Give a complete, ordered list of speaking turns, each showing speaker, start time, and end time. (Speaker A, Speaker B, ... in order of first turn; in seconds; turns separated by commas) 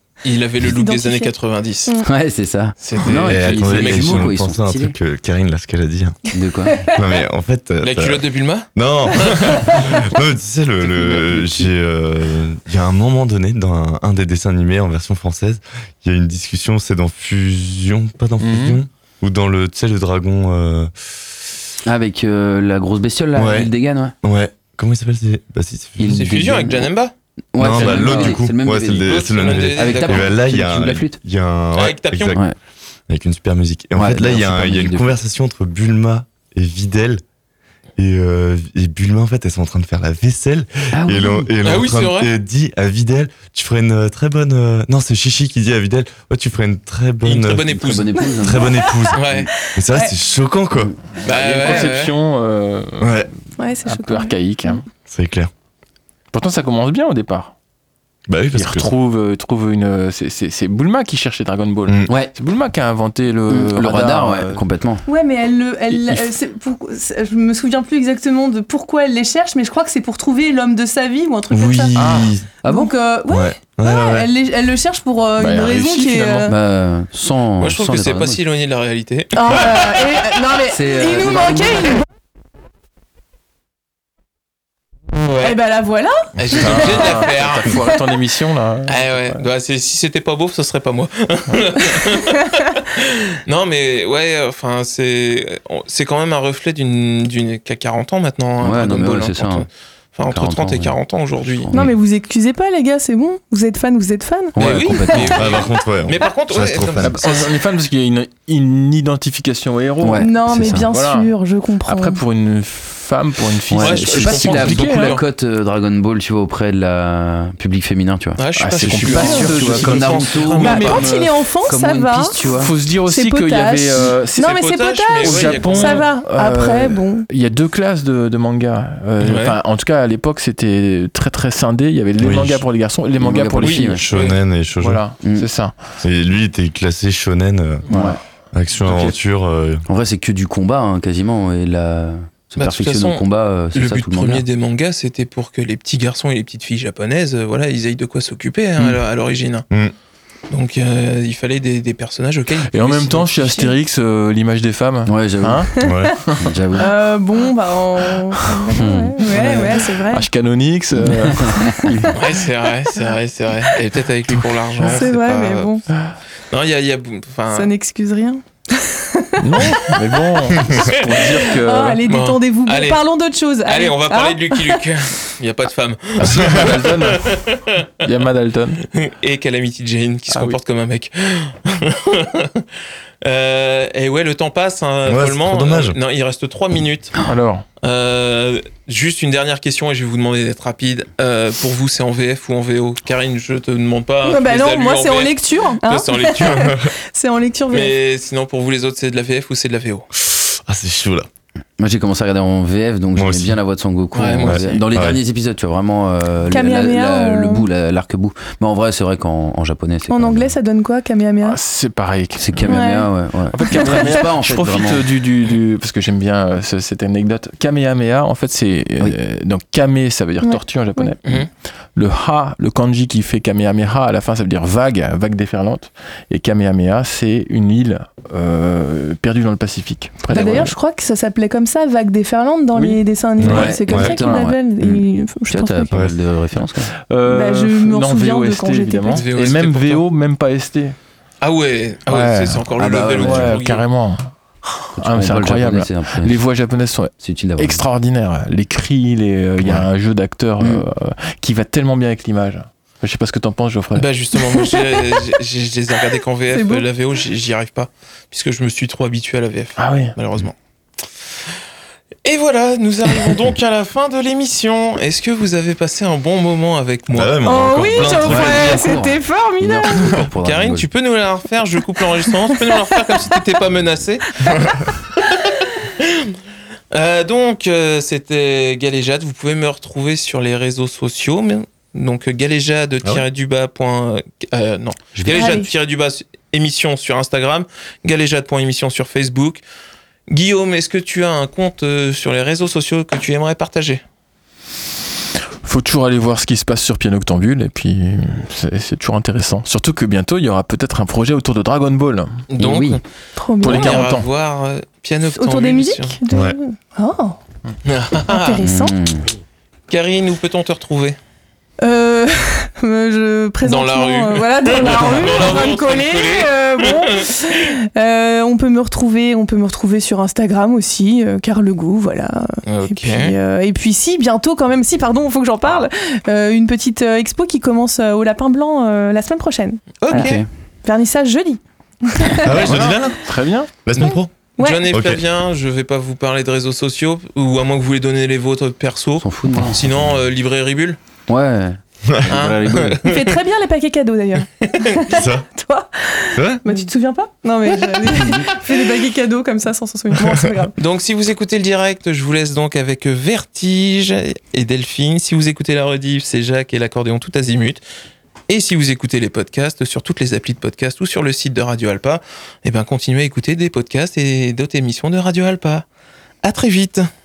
Speaker A: 0.2-1.9, Speaker B: 0.7-1.3, Speaker C: 2.0-4.9, Speaker A: 2.8-4.3, Speaker D: 3.0-6.2, Speaker C: 6.3-6.9, Speaker D: 6.8-20.9, Speaker A: 7.8-9.8, Speaker C: 11.1-11.7, Speaker E: 18.4-18.8, Speaker C: 21.8-24.1, Speaker D: 23.4-23.7, Speaker D: 24.2-26.3, Speaker C: 26.0-26.9, Speaker A: 26.1-27.1, Speaker C: 27.5-31.2, Speaker D: 27.6-32.4, Speaker E: 27.7-28.4, Speaker A: 29.1-30.3, Speaker A: 31.7-32.4, Speaker D: 33.1-37.2, Speaker C: 34.0-35.1, Speaker D: 38.0-47.8, Speaker C: 40.9-41.5, Speaker A: 41.6-42.3, Speaker A: 47.2-48.1, Speaker C: 47.7-48.7, Speaker D: 48.4-50.9, Speaker B: 48.8-49.1, Speaker A: 49.1-49.5, Speaker B: 49.9-50.1, Speaker E: 51.2-53.1, Speaker A: 51.2-52.1, Speaker D: 53.0-53.3, Speaker B: 53.6-54.8, Speaker E: 53.8-54.9, Speaker D: 55.0-55.5, Speaker E: 56.3-57.5, Speaker D: 58.3-58.9, Speaker E: 58.5-64.6, Speaker D: 61.9-62.2, Speaker C: 63.5-65.0, Speaker B: 65.0-72.0, Speaker D: 71.5-72.5, Speaker E: 71.9-72.3, Speaker B: 72.6-76.5, Speaker C: 72.6-72.9, Speaker D: 73.3-74.3, Speaker E: 75.4-76.5, Speaker C: 76.5-78.4, Speaker A: 77.6-79.8, Speaker B: 79.3-82.0, Speaker C: 80.7-81.9, Speaker A: 85.2-85.5, Speaker B: 85.4-87.2, Speaker A: 86.4-87.8, Speaker E: 86.5-89.4, Speaker A: 88.9-101.7, Speaker C: 98.6-99.7, Speaker C: 100.3-101.9, Speaker B: 101.7-105.7, Speaker C: 104.5-105.6, Speaker A: 104.6-107.5, Speaker D: 105.2-107.3, Speaker E: 107.0-115.2, Speaker C: 110.0-110.9, Speaker B: 110.2-112.2, Speaker C: 113.7-121.0, Speaker A: 113.8-115.2, Speaker A: 118.4-121.0, Speaker E: 118.5-121.7, Speaker B: 120.6-122.4, Speaker C: 121.7-122.7, Speaker E: 122.5-124.6, Speaker B: 123.1-127.3, Speaker A: 124.4-126.1, Speaker E: 125.2-134.1, Speaker A: 129.2-129.6, Speaker D: 132.2-132.7, Speaker C: 133.2-134.1, Speaker A: 133.6-134.4, Speaker D: 133.9-135.1, Speaker E: 134.8-135.8, Speaker C: 135.2-135.5, Speaker D: 136.0-139.8, Speaker C: 137.9-138.2, Speaker E: 137.9-138.2, Speaker C: 138.8-139.1, Speaker C: 139.9-144.4, Speaker A: 142.6-149.7, Speaker A: 150.5-153.5, Speaker E: 152.7-156.5, Speaker B: 153.4-153.7, Speaker C: 155.0-155.7, Speaker D: 155.8-156.2, Speaker B: 155.8-156.1, Speaker C: 156.4-156.9, Speaker B: 156.8-160.3, Speaker C: 158.7-159.2, Speaker E: 159.2-162.2, Speaker C: 160.9-161.8, Speaker A: 162.1-165.8, Speaker E: 164.8-165.1, Speaker B: 164.8-165.8, Speaker A: 166.5-167.7, Speaker B: 167.5-169.4, Speaker E: 169.4-172.0, Speaker A: 170.6-171.0, Speaker B: 171.5-174.9, Speaker A: 172.1-173.0, Speaker A: 173.6-178.2, Speaker E: 176.2-177.4, Speaker E: 178.0-178.8, Speaker A: 178.8-182.6, Speaker E: 180.3-180.6, Speaker A: 183.2-187.1, Speaker D: 185.1-186.0, Speaker E: 187.2-187.7, Speaker A: 187.8-196.7, Speaker B: 194.2-197.9, Speaker D: 196.3-196.9, Speaker A: 197.7-200.1, Speaker D: 200.1-201.3, Speaker C: 201.8-210.5, Speaker D: 203.2-203.5, Speaker A: 204.1-204.8, Speaker D: 204.4-205.2, Speaker B: 206.5-207.7, Speaker B: 210.1-211.6, Speaker E: 211.4-212.9, Speaker C: 212.3-215.1, Speaker B: 212.7-213.1, Speaker E: 213.5-221.4, Speaker B: 213.7-214.0, Speaker B: 220.4-221.1, Speaker E: 221.9-230.7, Speaker B: 230.3-236.0, Speaker E: 232.7-233.0, Speaker D: 233.4-234.2, Speaker C: 233.4-236.9, Speaker E: 234.2-234.5, Speaker E: 236.9-240.9, Speaker B: 237.2-239.2, Speaker A: 239.1-240.0, Speaker A: 241.4-243.8, Speaker E: 242.1-244.3, Speaker C: 242.8-243.6, Speaker E: 244.9-254.1, Speaker C: 244.9-246.4, Speaker C: 247.2-247.8, Speaker C: 250.6-250.8, Speaker A: 253.9-260.5, Speaker B: 254.6-255.2, Speaker B: 256.5-256.9, Speaker E: 259.8-260.1, Speaker A: 262.2-268.6, Speaker D: 267.1-268.8, Speaker B: 267.4-270.2, Speaker C: 268.2-270.9, Speaker A: 270.4-274.4, Speaker B: 272.3-273.4, Speaker B: 274.4-275.2, Speaker A: 276.0-276.3, Speaker A: 276.9-289.6, Speaker C: 285.1-285.6, Speaker B: 285.3-285.7, Speaker A: 290.3-294.0, Speaker E: 295.6-302.4, Speaker A: 302.5-303.0, Speaker C: 302.6-303.0, Speaker B: 303.4-304.0, Speaker E: 303.6-304.3, Speaker A: 303.6-306.2, Speaker B: 305.2-307.4, Speaker D: 306.3-306.6, Speaker A: 307.8-308.6, Speaker B: 308.3-308.9, Speaker C: 308.6-309.3, Speaker A: 309.9-311.2, Speaker B: 311.8-330.3, Speaker A: 313.6-317.3, Speaker A: 322.6-323.3, Speaker A: 330.0-330.4, Speaker C: 330.1-330.4, Speaker B: 330.8-332.8, Speaker D: 332.4-334.3, Speaker E: 332.6-333.7, Speaker A: 334.0-341.0, Speaker B: 334.6-334.8, Speaker D: 334.9-335.2, Speaker C: 339.2-339.9, Speaker C: 341.3-343.1, Speaker D: 342.0-342.3, Speaker A: 342.3-343.4, Speaker B: 343.0-350.7, Speaker A: 344.6-345.0, Speaker D: 345.1-345.4, Speaker D: 346.3-346.6, Speaker A: 350.8-357.8, Speaker A: 358.5-365.9, Speaker A: 366.4-367.1